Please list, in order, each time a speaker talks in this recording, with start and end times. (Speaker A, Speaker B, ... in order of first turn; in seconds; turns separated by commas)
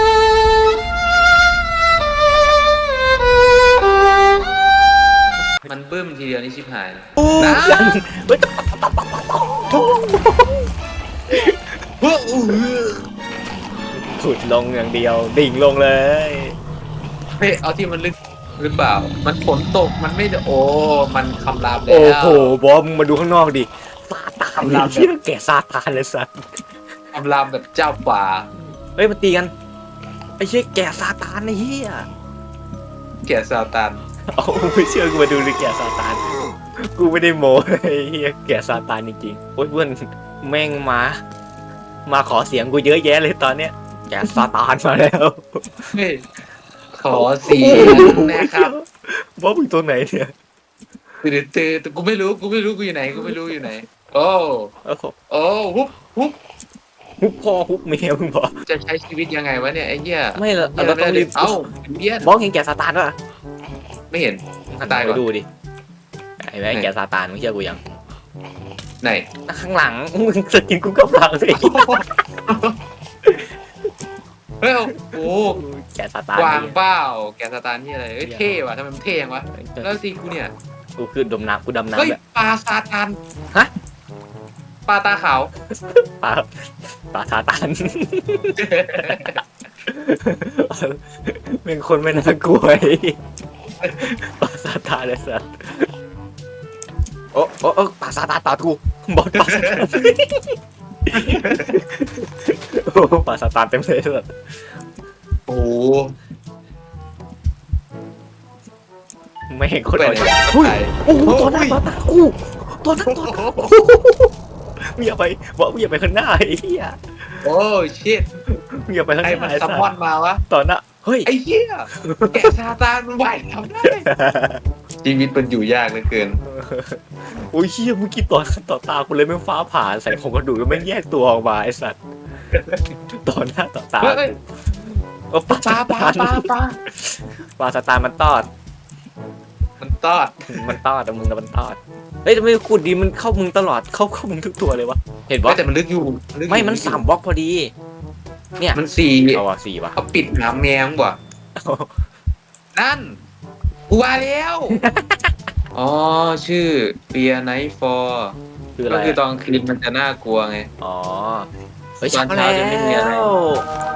Speaker A: 5.6-7.9, Speaker B: 7.2-10.7, Speaker B: 11.3-11.6, Speaker A: 12.0-13.0, Speaker B: 13.9-16.6, Speaker A: 17.4-22.6, Speaker B: 21.9-26.6, Speaker A: 24.6-25.1, Speaker A: 27.1-28.5, Speaker B: 28.9-29.5, Speaker B: 30.4-32.1, Speaker A: 33.2-34.0, Speaker B: 34.3-36.2, Speaker B: 36.8-41.2, Speaker B: 42.0-45.9, Speaker A: 45.9-46.2, Speaker A: 46.9-48.7, Speaker B: 47.1-50.3, Speaker A: 51.2-54.7, Speaker B: 53.1-53.7, Speaker B: 54.8-55.1, Speaker A: 55.3-56.4, Speaker B: 57.2-58.5, Speaker A: 58.6-62.3, Speaker B: 60.3-61.6, Speaker B: 62.2-63.1, Speaker A: 64.1-65.2, Speaker B: 64.7-65.5, Speaker B: 66.4-67.8, Speaker B: 69.5-71.8, Speaker A: 71.5-72.8, Speaker A: 74.6-75.6, Speaker B: 75.0-76.8, Speaker A: 76.3-80.5, Speaker B: 78.2-78.6, Speaker B: 79.5-79.9, Speaker B: 81.0-82.2, Speaker A: 82.0-83.2, Speaker A: 84.8-85.5, Speaker B: 85.7-93.2, Speaker A: 88.6-89.4, Speaker A: 93.8-94.1, Speaker B: 94.0-95.9, Speaker B: 97.3-100.6, Speaker A: 99.4-100.1, Speaker B: 101.1-104.3, Speaker A: 101.1-101.8, Speaker A: 105.5-106.1, Speaker B: 109.5-114.3, Speaker A: 110.0-111.8, Speaker A: 113.0-113.7, Speaker B: 115.0-117.5, Speaker A: 117.4-118.3, Speaker B: 118.5-119.9, Speaker A: 119.2-120.4, Speaker B: 120.5-121.3, Speaker A: 121.2-124.0, Speaker B: 121.9-122.5, Speaker B: 123.8-124.6, Speaker A: 125.0-126.4, Speaker B: 126.4-132.0, Speaker A: 132.5-132.8, Speaker B: 133.1-138.5, Speaker A: 134.0-134.3, Speaker A: 135.5-136.8, Speaker A: 139.8-140.8, Speaker B: 140.5-145.6, Speaker A: 145.4-147.0, Speaker B: 146.5-147.7, Speaker B: 148.6-150.0, Speaker A: 148.7-149.4, Speaker A: 149.9-151.2, Speaker B: 151.6-151.9, Speaker A: 152.7-153.2, Speaker A: 153.9-154.8, Speaker B: 154.7-155.3, Speaker A: 155.7-158.3, Speaker B: 158.8-159.2, Speaker A: 158.9-160.7, Speaker B: 160.8-161.5, Speaker B: 162.0-163.6, Speaker A: 162.0-163.3